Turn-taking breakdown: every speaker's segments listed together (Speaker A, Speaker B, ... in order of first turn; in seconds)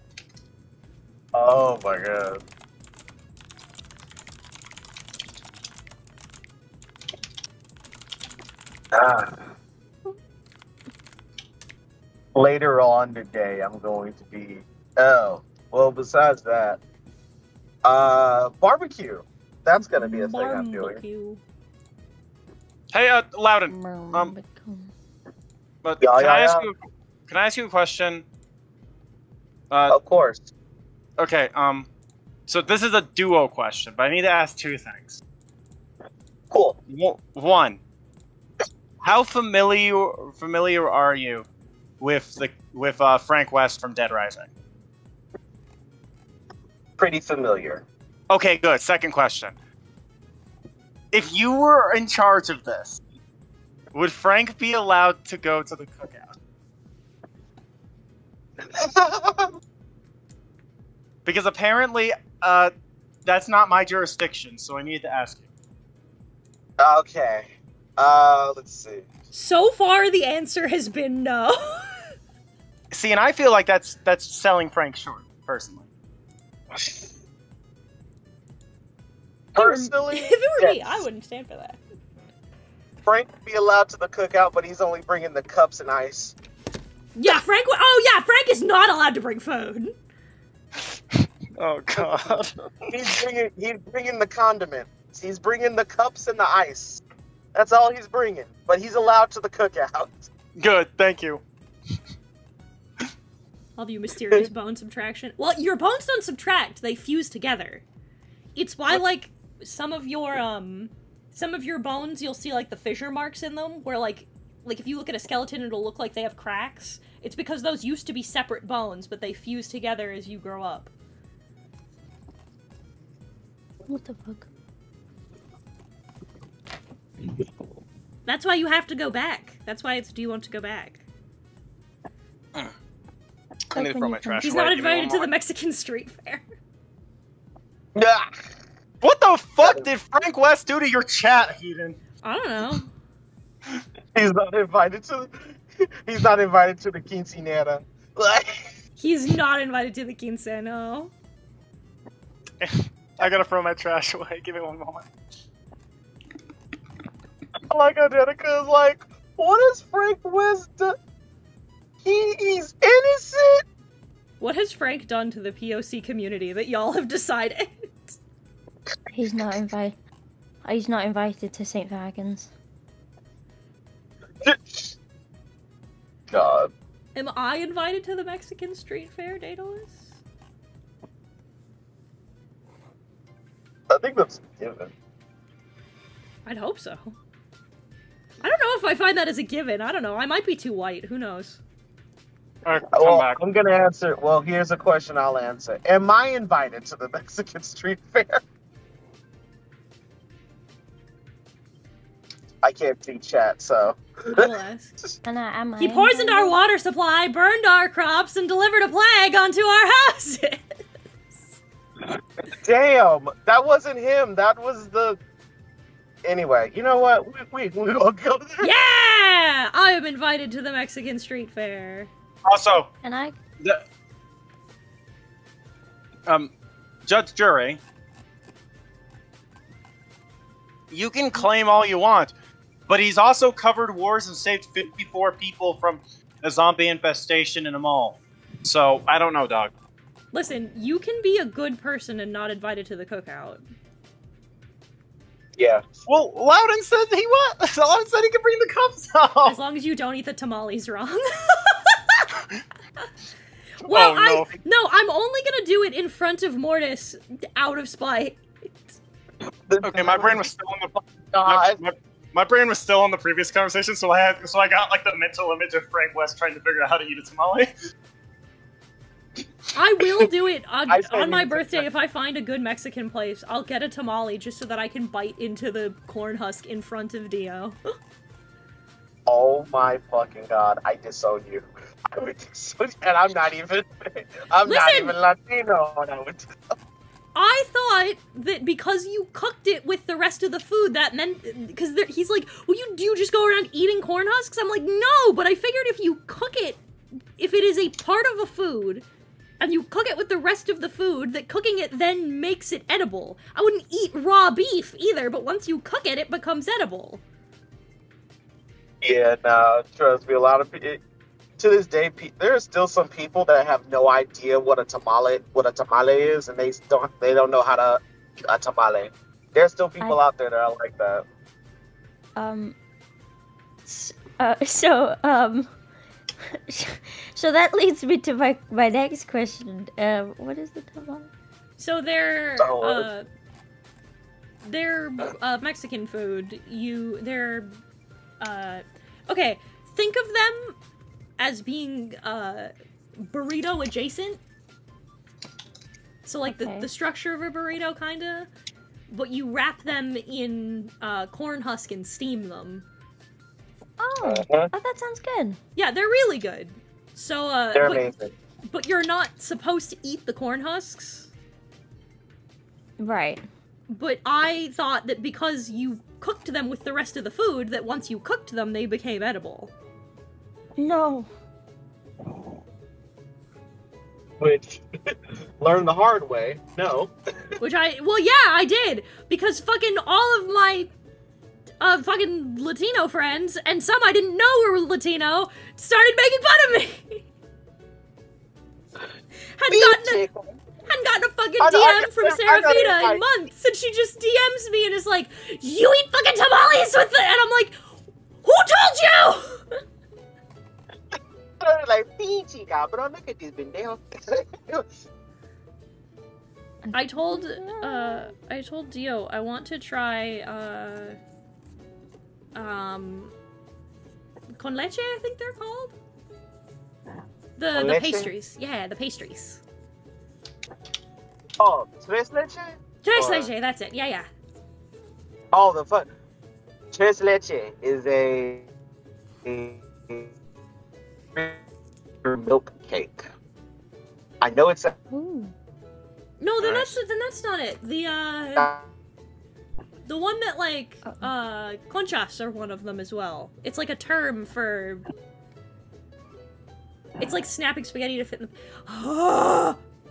Speaker A: 1.3-2.4, 8.9-9.4, 12.3-16.8, 17.8-21.0, 26.0-26.7, 29.9-30.5, 36.5-36.8, 47.0-47.8, 58.6-59.5, 66.8-69.0, 76.7-77.0, 79.5-80.9, 83.0-86.3, 92.0-92.3, 92.9-97.0, 97.5-100.3, 137.9-138.5, 144.1-145.5, 146.1-148.7, 157.7-160.9, 162.0-163.6, 174.4-174.9, 176.3-176.7, 183.9-184.9, 192.9-198.4, 202.6-204.5, 212.5-215.2, 216.2-218.7, 245.6-245.9, 259.7-260.4, 261.3-261.8, 270.9-271.9, 279.2-286.5, 309.0-311.0, 311.6-321.2, 332.6-333.1, 354.2-354.7, 357.7-358.3, 374.4-374.8, 375.6-377.1, 389.7-390.6, 391.6-393.2, 401.6-404.9, 417.7-418.3, 421.6-423.5, 425.5-426.1, 426.9-428.7, 429.4-430.3, 431.3-431.6, 432.2-433.3, 434.4-434.9, 438.6-438.8
Speaker B: 20.0-21.4, 69.3-72.0, 79.5-81.8, 87.1-89.9, 103.8-107.8, 108.5-120.9, 128.2-131.0, 134.4-136.4, 142.2-142.9, 149.0-151.1, 164.4-168.2, 177.1-180.2, 186.4-187.2, 188.4-191.6, 204.3-205.0, 205.8-210.7, 218.6-222.1, 240.3-243.6, 249.4-252.2, 253.8-258.4, 269.7-277.8, 284.6-285.2, 287.3-296.8, 297.4-299.1, 299.6-307.2, 331.8-333.2, 334.6-337.8, 338.4-340.8, 341.4-344.4, 346.2-348.5, 349.1-352.9, 355.8-358.1, 358.6-361.3, 363.9-369.7, 377.6-380.9, 381.8-387.2, 389.6-390.2, 390.9-397.8, 398.4-399.8, 406.9-411.2, 412.5-413.3, 414.6-415.9, 417.6-419.6, 423.0-424.3, 436.4-438.7, 440.1-445.0, 447.2-449.8
Speaker C: 22.9-24.3, 25.8-26.8, 27.3-28.2, 29.7-30.0, 31.2-31.9, 32.5-35.2, 36.9-37.8, 39.0-41.5, 42.0-44.5, 48.3-49.5, 51.1-53.0, 53.9-56.3, 61.2-62.7, 63.2-65.4, 72.9-75.9, 91.6-93.2, 100.6-101.4, 133.7-135.3, 139.0-142.0, 152.6-155.1, 192.6-193.4, 222.4-222.9, 227.1-227.8, 230.9-232.3, 232.9-239.7, 246.1-249.5, 253.8-254.6, 259.8-267.7, 436.6-436.9
Speaker D: 23.7-24.9, 123.9-124.5, 133.7-134.4, 169.1-169.9, 170.6-172.5, 205.2-206.6, 223.0-223.3, 322.4-322.7, 323.9-325.7, 326.5-331.3, 346.5-346.9, 354.0-355.6, 363.0-363.4, 370.8-371.3, 406.8-408.3, 435.1-435.5